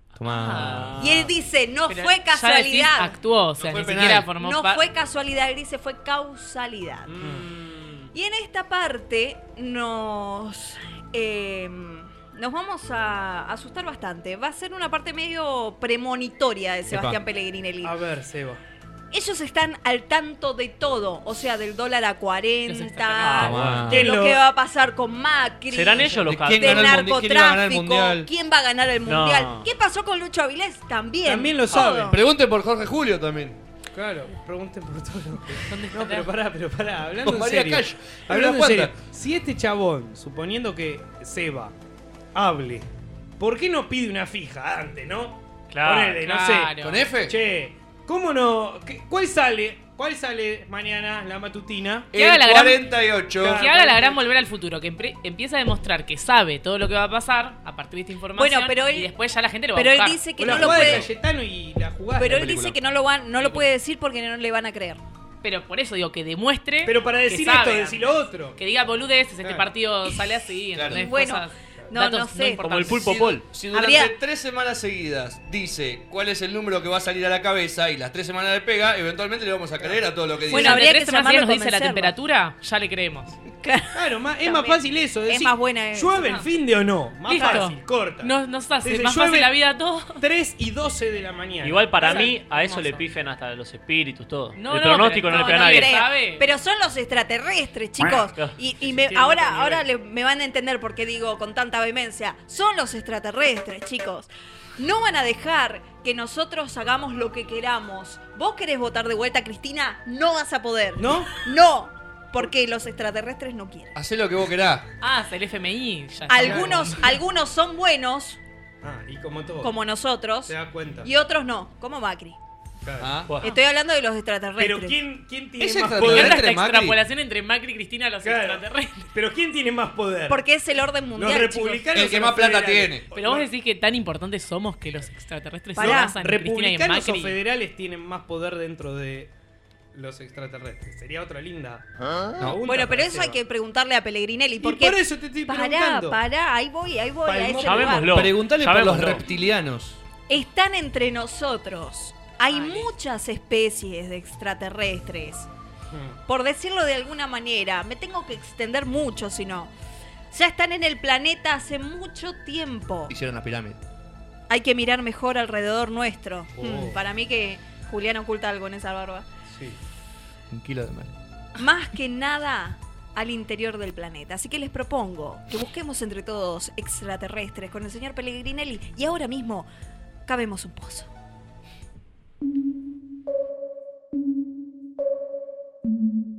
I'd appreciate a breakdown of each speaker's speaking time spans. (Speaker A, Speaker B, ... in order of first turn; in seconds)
Speaker A: 0.2-1.0, 3.6-4.3, 16.9-17.2, 23.4-24.0, 26.2-28.3, 32.1-33.6, 37.2-38.9, 46.8-47.3, 52.1-53.7, 60.5-61.0, 62.3-62.8, 70.8-71.1, 72.9-80.8, 114.0-114.9, 123.0-123.3, 125.6-127.0, 131.9-133.1, 148.1-150.0, 163.1-163.8, 170.5-171.1
Speaker B: 0.3-0.8, 1.9-4.8, 22.7-23.6, 35.7-36.3, 46.2-47.1, 52.2-52.9, 53.5-60.4, 63.4-63.7, 65.4-73.1, 80.5-83.4, 87.3-90.2, 92.0-93.0, 94.6-96.5, 115.0-117.1, 126.0-129.1, 133.1-137.4, 152.5-152.9
Speaker C: 0.4-1.3, 7.1-8.1, 23.2-23.9, 25.7-27.1, 29.1-29.7, 45.7-46.2, 72.6-73.5, 91.6-96.0, 98.1-98.5, 147.6-149.2
Speaker D: 1.0-3.2, 4.4-7.1, 8.1-17.9, 19.1-32.2, 58.4-59.1, 59.7-61.1, 62.2-65.0, 70.9-72.9, 73.7-74.1, 80.5-82.1, 83.6-86.2, 95.3-113.9, 116.3-118.4, 119.6-122.4, 123.4-125.0, 130.3-131.9, 135.8-136.2, 142.7-148.2, 150.3-155.5, 156.3-159.7, 160.3-163.1, 164.5-169.3, 171.6-179.7, 180.3-181.1
Speaker E: 17.8-18.6, 23.9-24.4, 31.2-32.2, 34.0-41.7, 42.4-42.9, 43.4-52.2, 53.4-54.2, 60.4-62.5, 66.8-68.6, 69.4-69.7, 84.0-89.6, 90.2-92.1, 99.1-99.8, 111.0-111.3, 116.4-117.1, 118.8-119.7, 120.5-121.1, 122.8-123.2, 124.6-126.5, 128.2-128.6, 129.1-130.4, 131.2-133.5, 135.8-139.3, 139.9-141.9, 142.4-143.4, 144.6-146.2, 147.3-148.0, 155.9-156.2, 166.6-167.0, 169.5-169.8